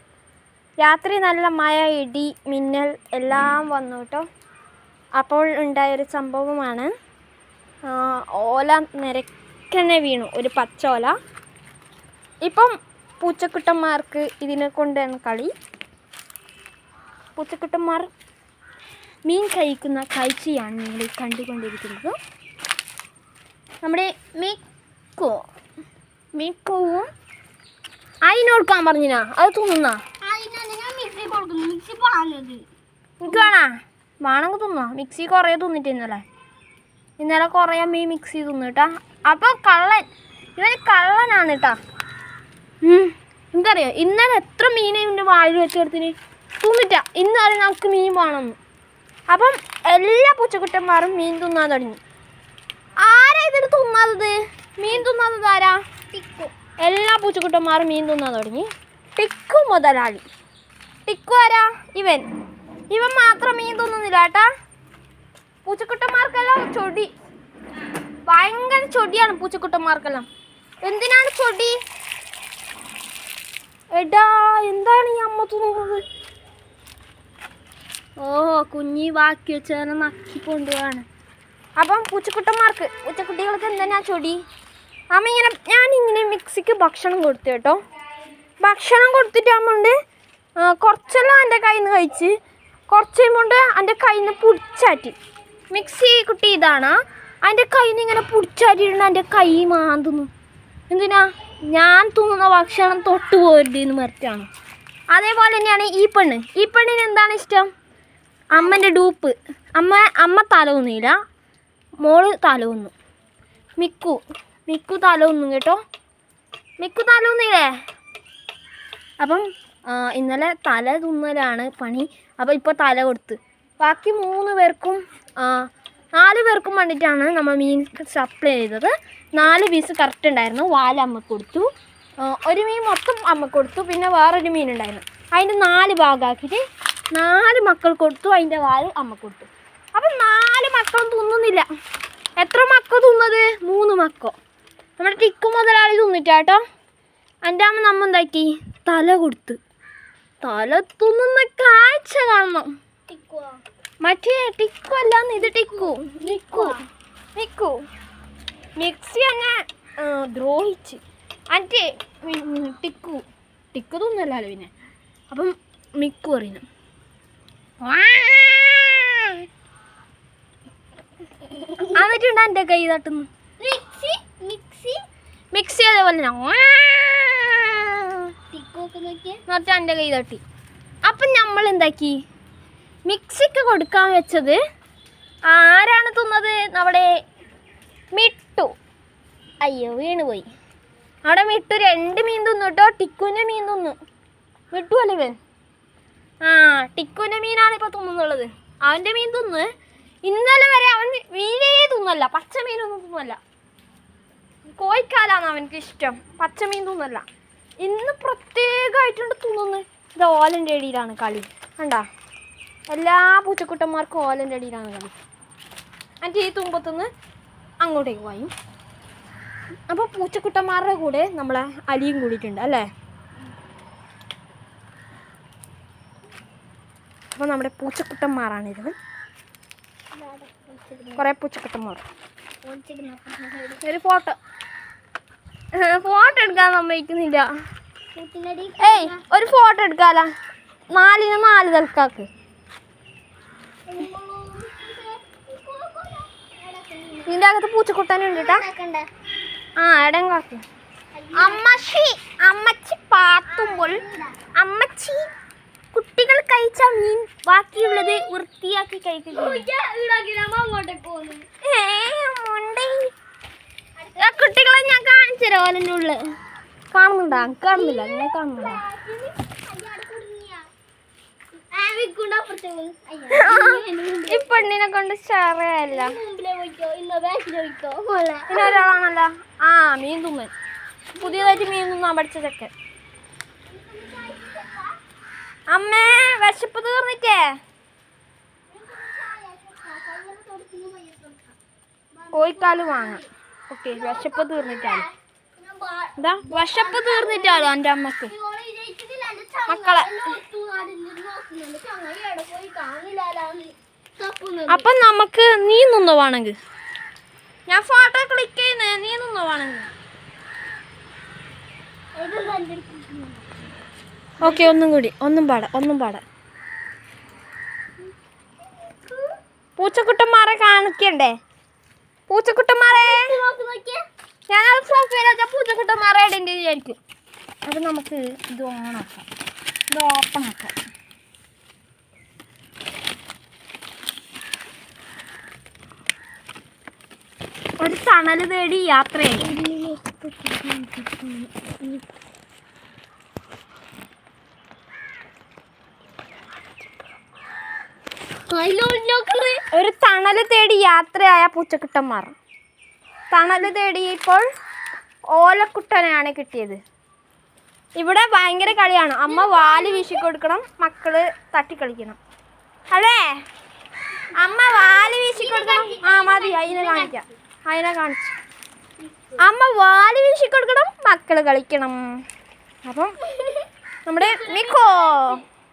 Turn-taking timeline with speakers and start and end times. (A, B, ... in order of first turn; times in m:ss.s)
0:00.8-0:04.2 A
0:05.2-0:06.9 A
0:07.8-0:11.1 A
0:12.4-0:15.5 A
0:17.4-0:18.1 A
0:19.2-0:22.2 A
0:23.8-0:24.6 A
0:25.2-0:25.4 A
0:26.4-0:27.1 A
0:28.2-0:30.0 A
0:30.2-0:32.6 B
0:33.2-0:36.2 A
0:37.2-0:40.0 A
0:40.6-0:41.8 A
0:42.8-0:48.6 A
0:49.3-0:52.0 A
0:53.0-0:55.8 A
0:56.1-0:56.5 B
0:56.8-1:00.2 A
1:01.0-1:02.2 A
1:02.9-1:04.5 A
1:05.6-1:07.1 A
1:08.3-1:10.3 A
1:10.8-1:11.8 A
1:13.9-1:16.0 A
1:18.2-1:21.0 A
1:21.8-1:24.4 A
1:25.1-1:27.8 A
1:28.6-1:29.9 A
1:30.6-1:32.3 A
1:32.9-1:35.1 A
1:35.7-1:40.3 A
1:40.9-1:44.5 A
1:45.1-1:47.7 A
1:48.5-1:51.2 A
1:48.6-1:48.8 B
1:52.0-1:52.9 A
1:53.8-1:55.8 A
1:56.8-1:57.7 A
1:59.2-2:11.7 A
2:12.2-2:21.7 A
2:22.4-2:24.3 A
2:25.0-2:26.6 A
2:27.4-2:29.6 A
2:30.4-2:32.7 A
2:33.1-2:33.6 B
2:34.0-2:36.8 A
2:35.4-2:36.8 B
2:37.4-2:37.8 A
2:38.8-2:44.7 A
2:45.3-2:46.6 A
2:47.8-2:49.4 A
2:51.9-2:53.3 A
2:53.6-2:55.0 B
2:55.5-2:58.2 A
2:58.5-2:59.4 B
2:59.5-3:00.4 A
3:01.0-3:02.2 A
3:03.1-3:04.6 A
3:05.5-3:07.1 A
3:08.2-3:08.7 A
3:09.6-3:10.5 A
3:11.2-3:14.0 A
3:14.7-3:15.4 A
3:16.4-3:19.7 A
3:20.2-3:23.4 A
3:24.7-3:27.2 A
3:27.8-3:32.1 A
3:32.9-3:35.2 A
3:36.2-3:37.1 A
3:37.8-3:38.5 A
3:39.9-3:42.9 A
3:47.3-3:49.0 A
3:50.1-3:51.2 B
3:51.2-3:52.0 A
3:52.6-3:53.8 B
3:53.8-3:54.4 A
3:55.8-3:57.5 A
3:58.1-3:59.2 B
3:58.8-4:00.3 A
4:00.9-4:02.3 A
4:03.9-4:07.3 B
4:07.3-4:08.6 A
4:08.3-4:09.1 B
4:09.8-4:10.6 A
4:11.1-4:11.9 B
4:11.4-4:14.0 A
4:13.5-4:14.4 B
4:14.6-4:15.3 A
4:15.9-4:19.7 A
4:17.8-4:18.3 B
4:19.3-4:21.5 B
4:21.6-4:23.1 A
4:24.0-4:24.8 B
4:24.2-4:26.2 A
4:26.9-4:28.8 A
4:27.3-4:30.7 B
4:31.7-4:34.7 B
4:33.3-4:36.2 A
4:35.9-4:38.9 B
4:38.5-4:40.5 A
4:41.2-4:41.8 B
4:41.2-4:42.7 A
4:43.7-4:45.0 B
4:45.7-4:47.5 A
4:48.7-4:51.6 B
4:52.1-4:53.3 B
4:52.3-4:55.1 A
4:53.9-5:04.9 B
4:56.2-4:58.3 A
4:59.7-5:00.3 A
5:04.7-5:06.6 A
5:07.7-5:09.9 A
5:12.2-5:13.4 B
5:14.4-5:16.2 A
5:14.4-5:14.7 B
5:18.6-5:19.4 B
5:19.8-5:21.4 A
5:22.3-5:23.3 A
5:22.9-5:24.0 B
5:24.5-5:27.0 A
5:27.7-5:29.3 A
5:29.9-5:30.7 A
5:37.8-5:39.6 A
5:39.4-5:42.0 B
5:48.5-5:49.6 B
5:49.7-5:52.4 A
5:53.3-5:54.4 A
5:55.3-5:56.8 A
5:58.0-6:02.2 A
5:59.3-6:00.3 B
6:02.9-6:03.3 A
6:04.3-6:08.4 A
6:04.4-6:07.2 B
6:09.0-6:09.4 B
6:09.4-6:12.2 A
6:12.8-6:13.2 A
6:13.2-6:15.4 B
6:14.1-6:15.4 A